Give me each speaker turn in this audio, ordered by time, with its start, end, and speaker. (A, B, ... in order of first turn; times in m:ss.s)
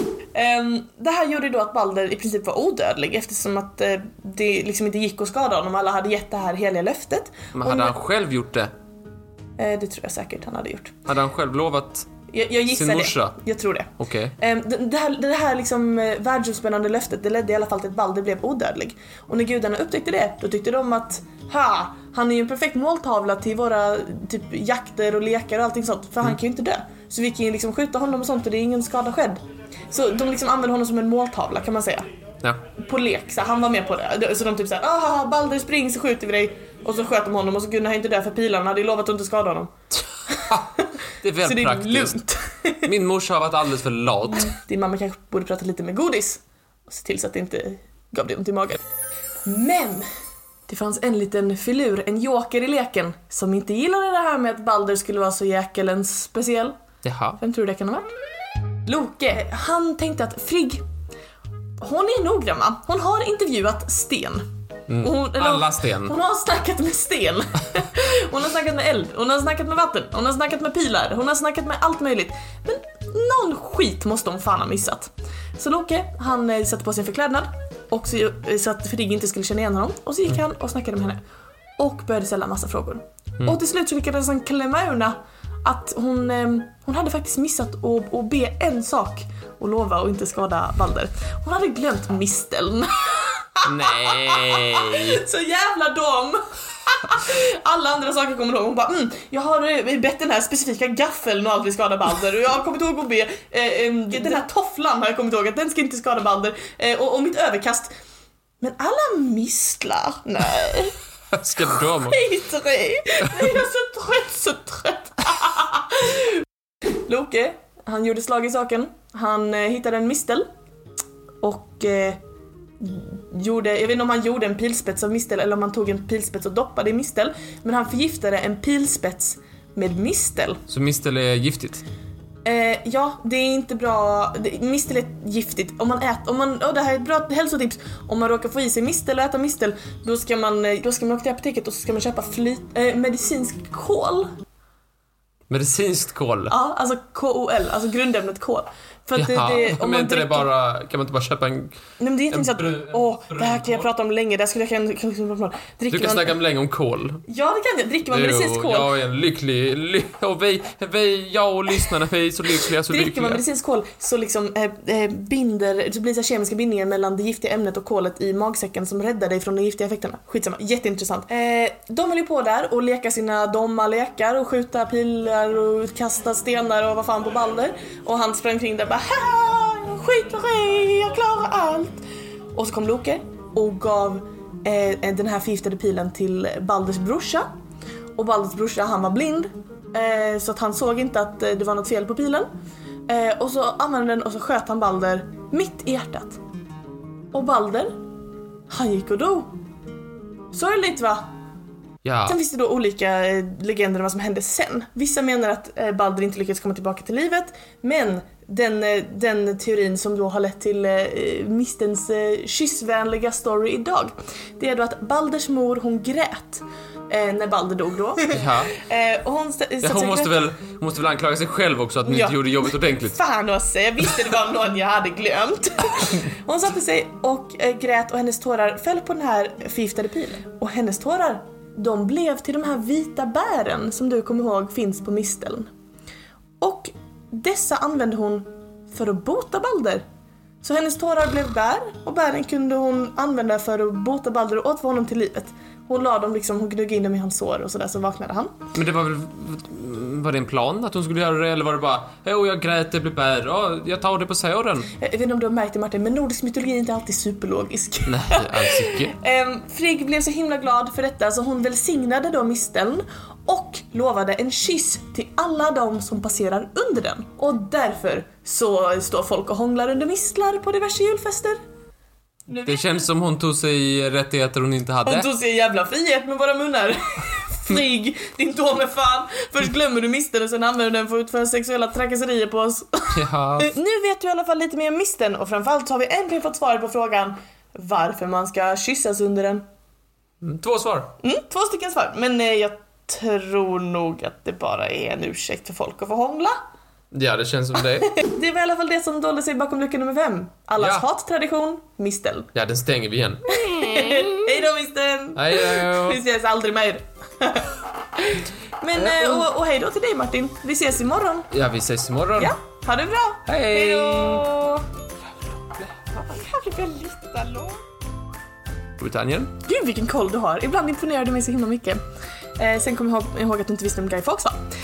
0:00.3-0:08.0 A
0:07.6-0:08.7 B
0:09.6-0:11.0 A
0:11.1-0:12.1 B
0:12.3-0:29.4 A
0:12.7-0:13.4 B
0:14.0-0:14.3 B
0:29.9-0:32.1 A
0:32.8-0:39.7 A
0:40.5-0:42.2 B
0:41.4-0:42.9 A
0:42.8-0:44.5 B
0:44.3-0:48.8 A
0:49.4-0:50.1 A
0:50.7-0:56.8 A
0:57.0-0:57.4 B
0:57.4-0:58.1 A
0:58.9-1:00.8 A
1:01.8-1:04.5 A
1:04.9-1:06.2 B
1:05.0-1:21.2 A
1:21.8-1:47.9 A
1:33.6-1:35.2 B
1:48.6-1:51.0 A
1:51.3-1:52.2 B
1:51.9-1:56.4 A
1:57.1-2:00.4 A
2:01.4-2:02.2 A
2:02.8-2:10.6 A
2:10.7-2:11.8 B
2:12.4-2:24.3 A
2:25.5-2:26.5 B
2:26.5-2:30.5 A
2:29.2-2:31.8 B
2:32.0-2:36.4 A
2:32.3-2:33.9 B
2:35.9-2:37.2 B
2:37.3-2:38.9 A
2:38.1-2:43.4 B
2:42.9-3:02.0 A
3:02.6-3:07.5 A
3:08.2-3:12.5 A
3:13.1-3:16.4 A
3:17.3-3:18.0 A
3:18.7-3:19.5 A
3:20.5-3:21.2 A
3:22.0-3:22.4 B
3:22.3-3:40.4 A
3:38.3-3:38.8 B
3:39.8-3:43.2 B
3:42.0-3:55.7 A
3:56.6-4:00.0 A
4:00.6-4:08.6 A
4:08.7-4:14.9 B
4:15.0-4:31.6 A
4:18.1-4:19.2 B
4:32.5-4:33.0 A
4:32.6-4:35.3 B
4:35.1-4:49.6 A
4:43.1-4:43.7 B
4:50.4-4:51.1 B
4:51.2-4:56.6 A
4:57.1-4:58.2 B
4:58.2-5:02.5 A
5:00.8-5:01.0 B
5:02.5-5:03.6 B
5:03.5-5:11.5 A
5:05.4-5:06.2 B
5:09.0-5:09.4 B
5:11.5-5:12.6 B
5:12.4-5:14.8 A
5:13.5-5:14.5 B
5:15.6-5:16.3 B
5:16.3-5:17.8 A
5:19.0-5:19.6 B
5:19.6-5:22.0 A
5:22.6-5:24.6 A